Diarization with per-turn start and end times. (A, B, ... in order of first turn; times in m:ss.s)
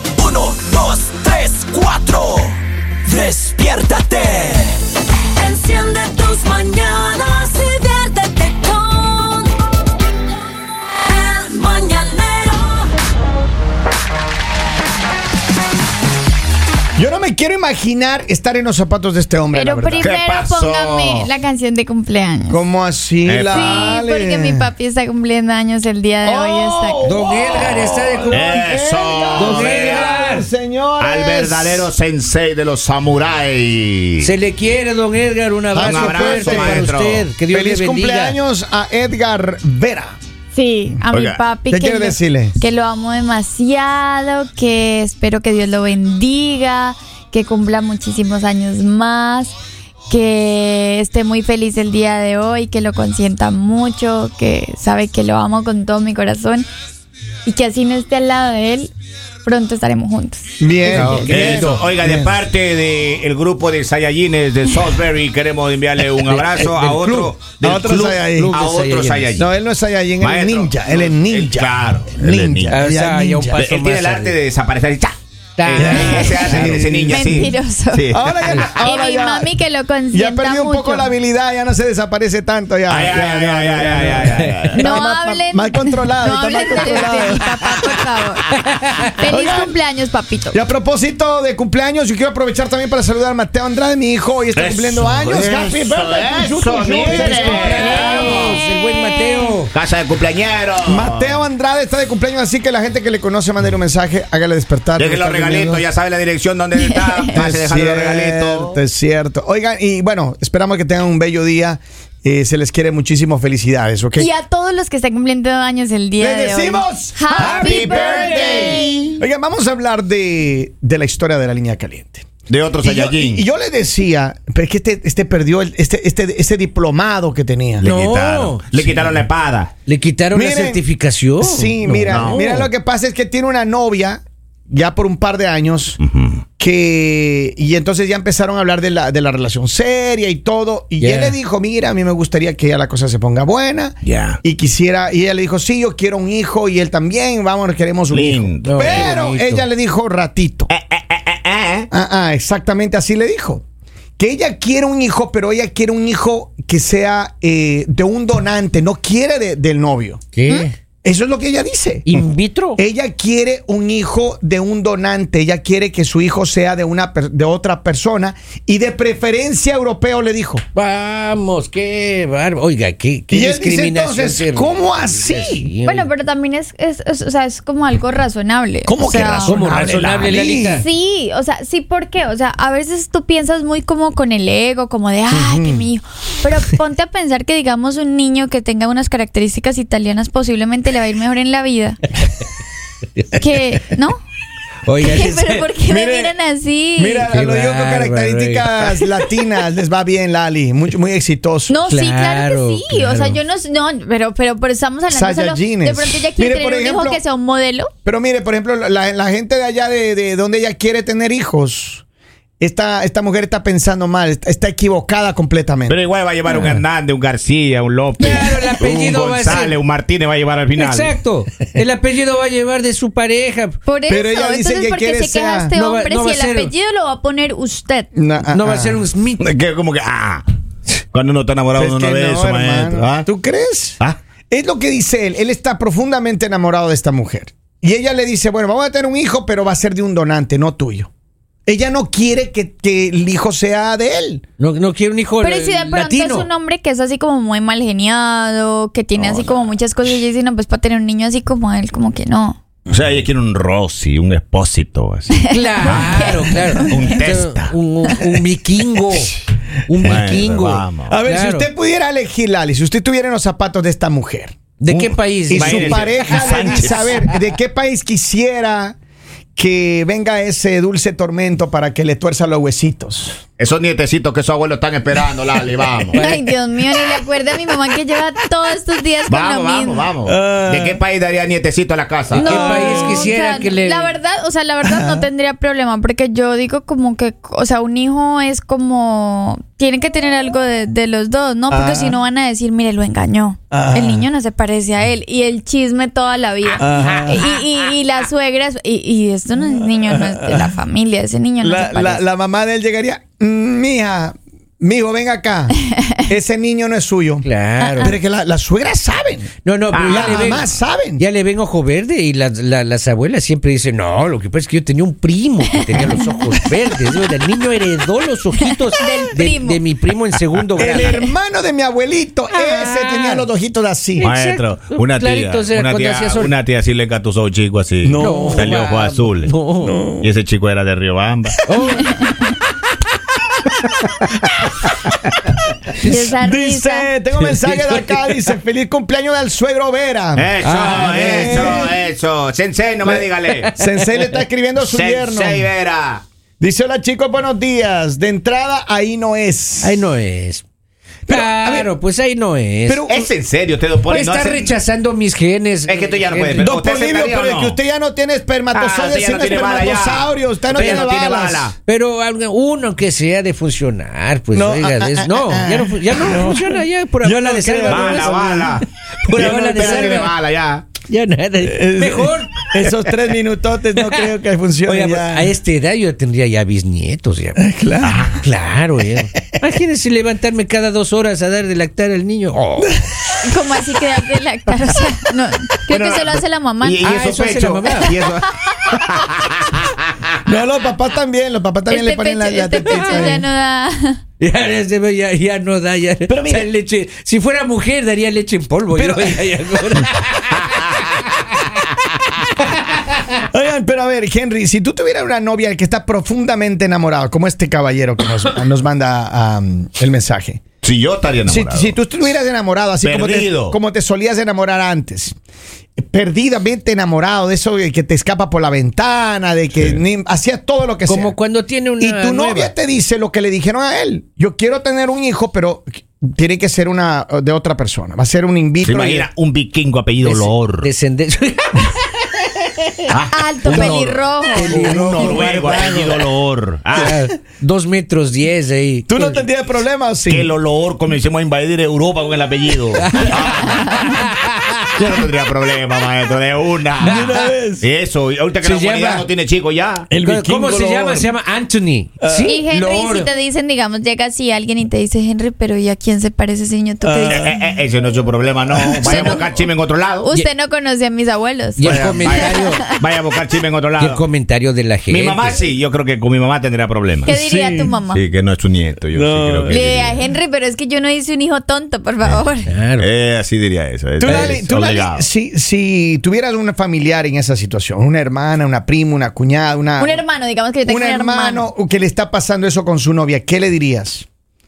0:04.1-0:04.5 A
0:05.4-0:09.2 A
0:17.0-0:20.0 B
0:19.5-0:22.6 C
0:20.0-0:21.3 D
0:22.5-0:24.7 B
0:23.2-0:23.9 D
0:23.5-0:27.1 C
0:26.2-0:31.9 B
0:27.0-0:28.6 E
0:27.5-0:30.2 D
0:29.4-0:30.5 E
0:31.0-0:34.3 D
0:34.2-0:38.4 E
0:35.7-0:36.9 B
0:35.8-0:37.3 D
0:37.5-0:40.2 B
0:40.5-0:49.5 C
0:41.1-0:41.4 D
0:41.7-0:42.6 B
0:50.1-0:56.7 C
0:57.4-0:58.9 C
0:59.4-1:01.0 C
1:00.6-1:02.3 B
1:00.8-1:01.9 E
1:01.3-1:09.4 D
1:06.1-1:07.2 E
1:07.2-1:08.6 B
1:08.2-1:09.4 E
1:09.4-1:13.6 B
1:10.2-1:12.8 D
1:12.6-1:14.4 E
1:13.5-1:15.1 D
1:15.6-1:16.8 E
1:15.7-1:18.7 D
1:15.7-1:17.4 B
1:16.0-1:21.1 C
1:18.1-1:19.5 B
1:20.1-1:27.6 B
1:22.9-1:24.9 D
1:23.9-1:24.9 E
1:24.8-1:28.5 C
1:28.6-1:29.1 E
1:29.0-1:30.6 C
1:29.3-1:29.7 B
1:30.5-1:38.0 B
1:34.5-1:38.6 D
1:37.0-1:39.7 E
1:37.6-1:39.6 C
1:39.7-1:41.4 D
1:40.8-1:45.8 B
1:45.0-1:48.8 D
1:46.8-1:47.4 C
1:47.3-1:54.3 B
1:54.2-1:59.2 C
1:56.2-2:02.3 B
1:57.4-1:59.1 D
2:02.5-2:03.4 D
2:02.8-2:07.9 B
2:07.8-2:09.2 E
2:07.8-2:09.7 D
2:09.8-2:12.6 E
2:10.3-2:10.8 B
2:11.4-2:16.0 B
2:12.1-2:12.7 D
2:16.0-2:16.4 D
2:16.6-2:30.7 B
2:21.0-2:21.4 E
2:24.0-2:24.4 D
2:28.1-2:29.1 D
2:28.6-2:29.7 E
2:30.7-2:31.9 D
2:31.9-2:33.6 B
2:34.2-2:42.2 B
2:40.3-2:40.7 E
2:42.0-2:42.8 E
2:42.8-2:50.6 B
2:50.7-2:56.1 E
2:53.3-2:55.7 B
2:55.8-2:59.6 C
2:58.8-3:00.8 B
2:59.4-3:00.8 E
3:00.7-3:12.0 C
3:05.3-3:05.8 B
3:13.2-3:13.4 E
3:13.3-3:14.2 C
3:14.8-3:15.7 E
3:15.0-3:17.3 C
3:15.9-3:16.3 B
3:17.0-3:21.8 B
3:17.3-3:19.4 E
3:21.7-3:27.9 C
3:21.8-3:23.4 E
3:25.1-3:27.2 B
3:28.0-3:32.0 B
3:32.6-3:36.0 B
3:35.9-3:41.1 D
3:36.5-3:36.8 E
3:38.2-3:39.8 E
3:38.8-3:39.1 B
3:40.7-3:43.8 E
3:43.8-3:48.1 C
3:44.1-3:45.7 B
3:45.7-3:46.7 E
3:48.1-3:49.0 B
3:48.5-3:49.4 E
3:49.4-3:50.4 D
3:51.1-3:53.3 D
3:51.7-4:01.1 B
4:01.6-4:04.4 B
4:04.6-4:06.5 E
4:05.4-4:12.6 C
4:12.9-4:17.7 D
4:15.4-4:19.4 E
4:15.5-4:17.0 C
4:19.9-4:21.7 E
4:20.0-4:21.2 D
4:21.1-4:24.6 B
4:24.8-4:27.4 E
4:24.9-4:27.2 D
4:25.5-4:29.0 B
4:29.6-4:33.4 B
4:33.6-4:36.2 D
4:36.1-4:36.4 E
4:36.1-4:40.1 C
4:39.3-4:42.5 D
4:40.2-4:41.0 B
4:42.3-5:02.2 C
4:42.3-4:44.2 E
4:42.4-4:43.2 B
4:44.8-4:45.3 B
4:51.7-4:52.2 B
4:53.7-4:54.3 B
4:56.8-4:57.4 B
5:00.0-5:00.7 B
5:01.6-5:07.5 B
5:07.4-5:08.2 E
5:07.8-5:08.1 C
5:08.0-5:09.5 B
5:09.6-5:21.2 E
5:09.9-5:10.6 D
5:10.0-5:11.2 B
5:15.9-5:16.3 C
5:18.7-5:19.8 C
5:20.8-5:24.3 B
5:20.8-5:21.3 C
5:22.5-5:23.5 E
5:24.2-5:26.6 E
5:24.2-5:29.5 D
5:28.0-5:28.7 B
5:28.2-5:30.0 E
5:29.8-5:30.3 B
5:30.2-5:31.6 D
5:31.6-5:32.1 E
5:31.9-5:32.5 C
5:35.9-5:36.3 E
5:36.0-5:37.1 C
5:36.3-5:41.9 B
5:37.3-5:38.6 E
5:40.3-5:43.7 D
5:40.6-5:41.8 E
5:43.0-5:45.7 B
5:43.4-5:44.4 E
5:44.8-5:46.2 D
5:46.6-5:50.0 B
5:49.8-5:50.6 E
5:51.3-5:51.9 B
5:51.3-5:53.0 E
5:52.9-5:53.3 B
5:53.1-5:54.7 D
5:54.0-5:56.8 E
5:55.8-5:57.8 D
5:56.6-6:01.7 B
5:58.7-6:01.8 D
6:00.7-6:01.1 E
6:01.8-6:10.3 E
6:04.5-6:08.3 B
6:07.8-6:11.0 D
6:09.3-6:10.3 B
6:11.0-6:13.1 E
6:11.6-6:15.5 B
6:14.0-6:14.3 E
6:14.8-6:17.6 E
6:17.6-6:18.2 B
6:18.0-6:18.4 D
6:18.4-6:23.0 E
6:23.4-6:27.2 C
6:25.9-6:26.3 D
6:26.8-6:30.3 D
6:27.0-6:28.1 E
6:27.9-6:28.3 C
6:30.4-6:33.4 B
6:31.9-6:34.2 C
6:32.8-6:33.4 E
6:34.4-6:40.6 E
6:36.3-6:36.7 B
6:38.9-6:39.5 B
6:43.5-6:50.6 B
6:50.8-6:51.9 D
6:51.4-6:55.3 B
6:53.0-6:53.8 D
6:56.0-7:01.3 B
6:59.7-7:00.0 D
7:01.1-7:02.7 E
7:02.0-7:09.3 B
7:08.8-7:10.9 D
7:10.2-7:12.0 E
7:12.8-7:13.1 E
7:13.1-7:17.1 D
7:13.3-7:14.8 C
7:13.6-7:14.0 E
7:14.6-7:15.6 E
7:14.6-7:16.2 B
7:17.0-7:19.4 E
7:19.1-7:20.5 B
7:20.3-7:24.1 D
7:22.8-7:25.3 E
7:24.9-7:27.2 D
7:27.0-7:27.6 E
7:27.0-7:27.9 B
7:27.8-7:30.1 D
7:28.6-7:29.3 E
7:30.1-7:31.3 B
7:30.1-7:33.3 E
7:32.2-7:32.6 B
7:32.4-7:37.6 C
7:37.0-7:37.6 B
7:37.3-7:40.4 D
7:38.7-7:39.5 B
7:39.0-7:43.0 C
7:41.8-7:43.0 E
7:41.8-7:44.2 D
7:44.0-7:45.6 E
7:45.1-7:47.3 D
7:47.2-7:48.2 C
7:47.3-7:48.0 B
7:48.1-7:50.2 D
7:49.1-7:49.9 B
7:49.7-7:52.7 C
7:52.6-7:53.1 E
7:53.0-7:55.2 D
7:54.2-8:00.2 B
7:54.2-7:54.6 E
8:00.0-8:01.7 C
8:00.8-8:04.2 B